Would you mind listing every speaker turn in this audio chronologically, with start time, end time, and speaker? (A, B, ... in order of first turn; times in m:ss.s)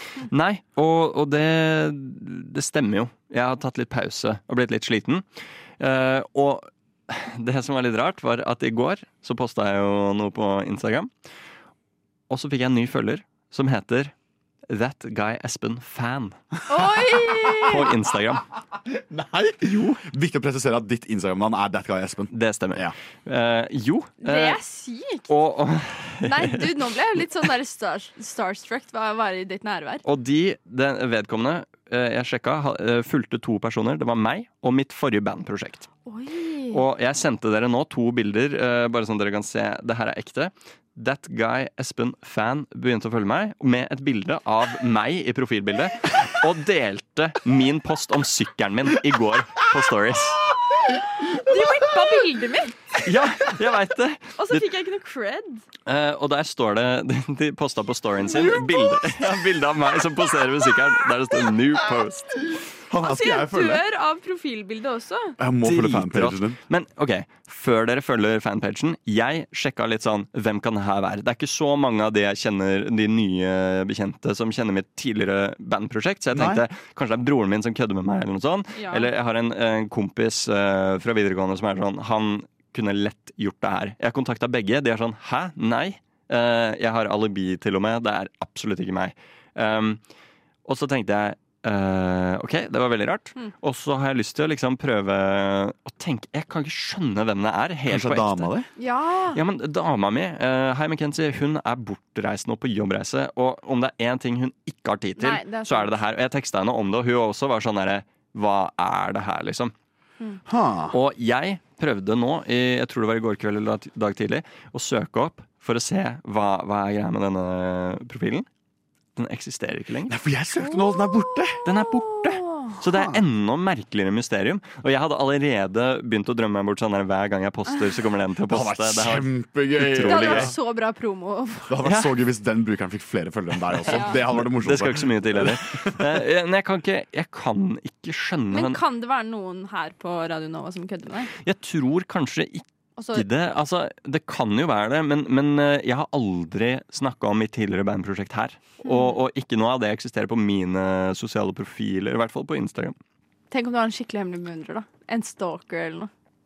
0:00.2-0:11.1 A
0:12.3-0:14.1 A
0:14.7-0:16.4 A
0:16.7-0:17.9 B
0:17.6-0:18.5 A
0:18.9-0:22.9 C
0:22.3-0:24.6 A
0:24.2-0:25.3 B
0:25.3-0:26.8 A
0:26.2-0:30.0 B
0:30.0-0:35.9 A
0:36.0-0:36.8 B
0:36.7-0:50.5 A
0:51.4-0:52.8 B
0:53.0-0:54.7 A
0:54.4-0:55.6 B
0:55.8-1:02.4 A
0:58.3-0:59.0 B
1:02.9-1:03.8 C
1:03.0-1:05.4 B
1:05.4-1:06.6 C
1:05.6-1:30.1 A
1:16.3-1:16.6 C
1:18.7-1:19.1 B
1:30.6-1:38.5 A
1:37.9-1:38.7 C
1:38.8-1:39.4 B
1:39.3-1:49.7 A
1:45.2-1:46.0 B
1:50.5-1:51.0 C
1:50.9-1:58.5 A
1:59.1-2:00.2 A
2:00.1-2:01.6 C
2:00.7-2:02.3 B
2:01.6-2:10.5 A
2:02.9-2:03.2 C
2:08.5-2:10.5 C
2:10.0-2:11.7 B
2:11.7-2:15.6 C
2:13.8-2:18.8 A
2:13.9-2:14.2 B
2:18.5-2:21.3 B
2:21.3-2:33.0 A
2:23.0-2:23.2 B
2:28.8-2:29.1 B
2:33.5-2:36.1 B